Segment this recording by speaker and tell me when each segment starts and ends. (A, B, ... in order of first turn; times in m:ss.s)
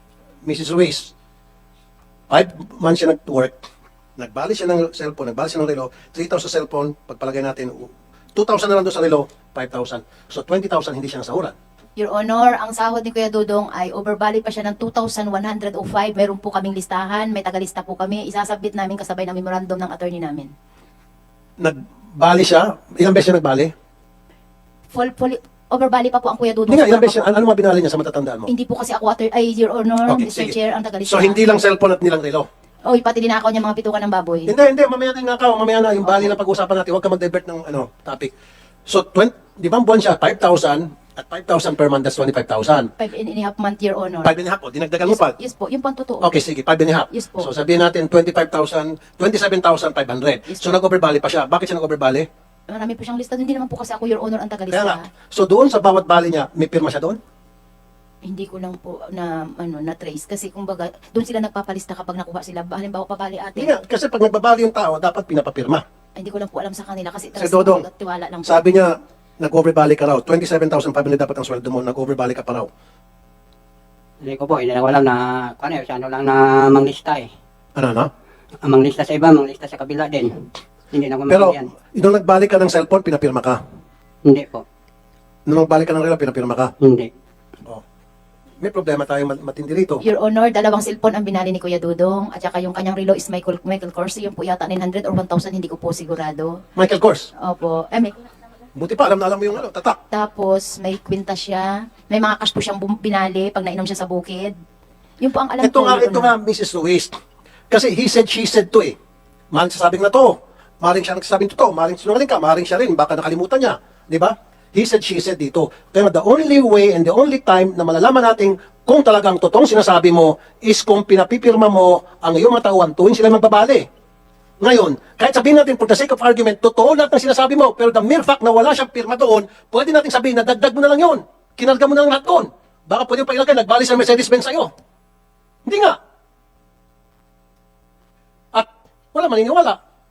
0:00.4-0:01.1 A
0:02.3-0:03.6 A
0:04.2-0:11.5 A
0:12.0-0:20.5 B
0:21.6-0:23.7 A
0:24.9-0:27.3 B
0:26.7-0:28.5 A
0:28.5-0:31.4 B
0:30.1-0:30.6 A
0:31.1-0:32.5 A
0:32.8-0:34.5 B
0:34.5-0:38.3 A
0:36.1-0:36.3 B
0:38.9-0:42.9 A
0:43.0-0:44.3 B
0:44.2-0:45.4 A
0:45.0-0:46.4 B
0:46.2-0:52.3 A
0:47.1-0:47.5 B
0:50.5-0:50.8 B
0:52.7-0:55.0 B
0:54.7-0:57.2 A
0:58.2-1:03.7 B
1:03.6-1:05.8 A
1:06.2-1:08.6 B
1:07.3-1:07.8 A
1:08.4-1:12.7 A
1:14.2-1:17.3 C
1:17.8-1:18.1 A
1:18.6-1:21.7 C
1:21.3-1:23.6 A
1:24.2-1:24.6 C
1:25.5-1:26.7 A
1:26.8-1:27.1 C
1:28.6-1:30.0 A
1:30.0-1:36.6 B
1:36.8-1:37.3 A
1:37.4-1:38.2 B
1:38.7-1:40.0 A
1:40.1-1:44.5 B
1:45.2-1:46.3 B
1:45.6-1:47.1 A
1:47.7-1:49.0 A
1:49.5-2:03.8 A
2:04.6-2:14.7 A
2:15.6-2:16.0 A
2:18.5-2:19.8 A